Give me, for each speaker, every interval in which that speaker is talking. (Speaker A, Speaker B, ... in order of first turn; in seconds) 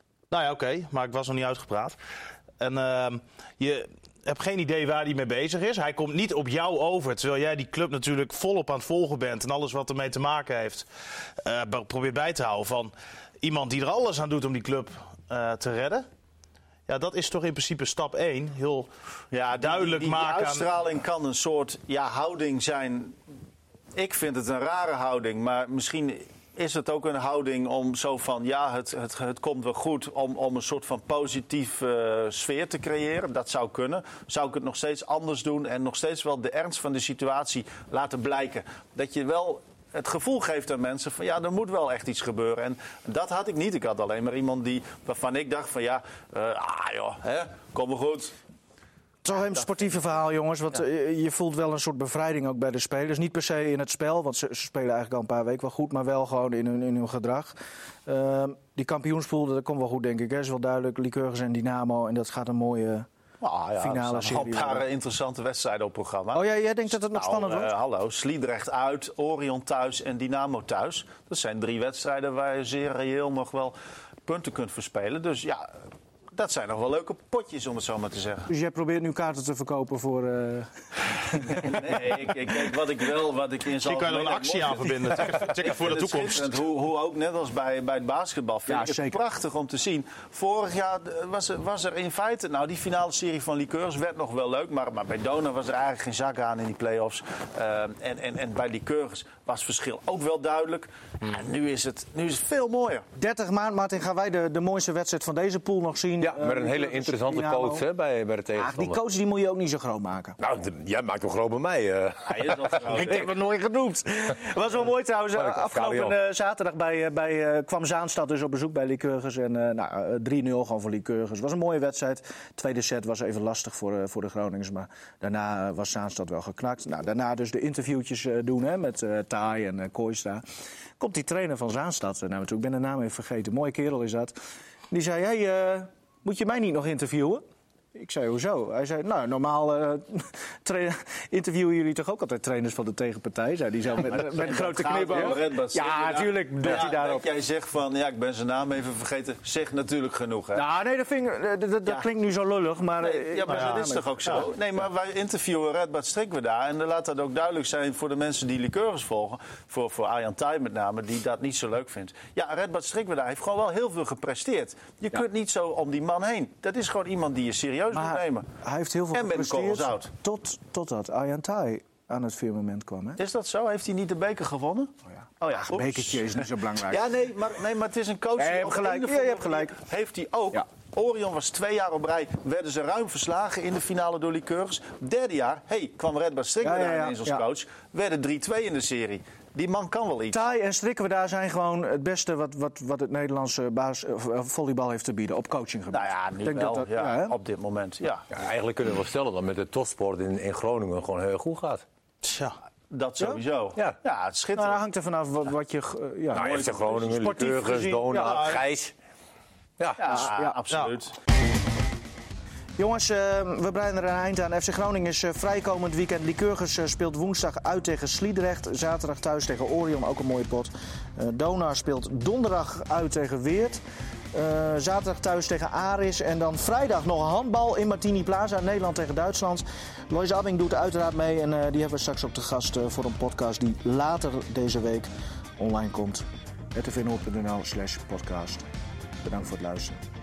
Speaker A: 0.3-2.0, 2.6-10.8, 11.4-16.0, 16.9-18.9, 19.6-20.7, 83.8-86.6, 153.5-154.4, 202.2-202.6, 208.1-208.6
Speaker B: 19.3-23.1, 23.9-48.3, 49.3-49.7, 63.4-66.4, 67.1-75.7, 76.3-78.5, 81.4-103.0, 112.2-113.3, 144.1-150.6, 153.0-168.5, 169.1-170.1, 173.2-190.4, 195.9-198.3, 202.9-204.8, 206.3-207.0, 210.0-211.1
Speaker C: 49.2-63.0, 63.8-64.8, 66.3-67.7, 78.5-80.7, 81.3-81.8, 88.7-89.2, 103.2-107.8, 108.5-110.4, 112.9-130.4, 131.0-134.3, 134.9-137.4, 137.9-147.2, 150.5-154.5, 167.9-173.2, 175.6-177.0, 178.4-179.8, 186.6-187.4, 190.3-197.3, 204.5-208.5, 210.0-210.6, 212.8-223.8, 224.3-238.6, 239.2-240.0
Speaker D: 106.2-109.0, 110.4-112.7, 115.4-116.2, 198.3-201.8, 206.3-208.9, 209.8-210.3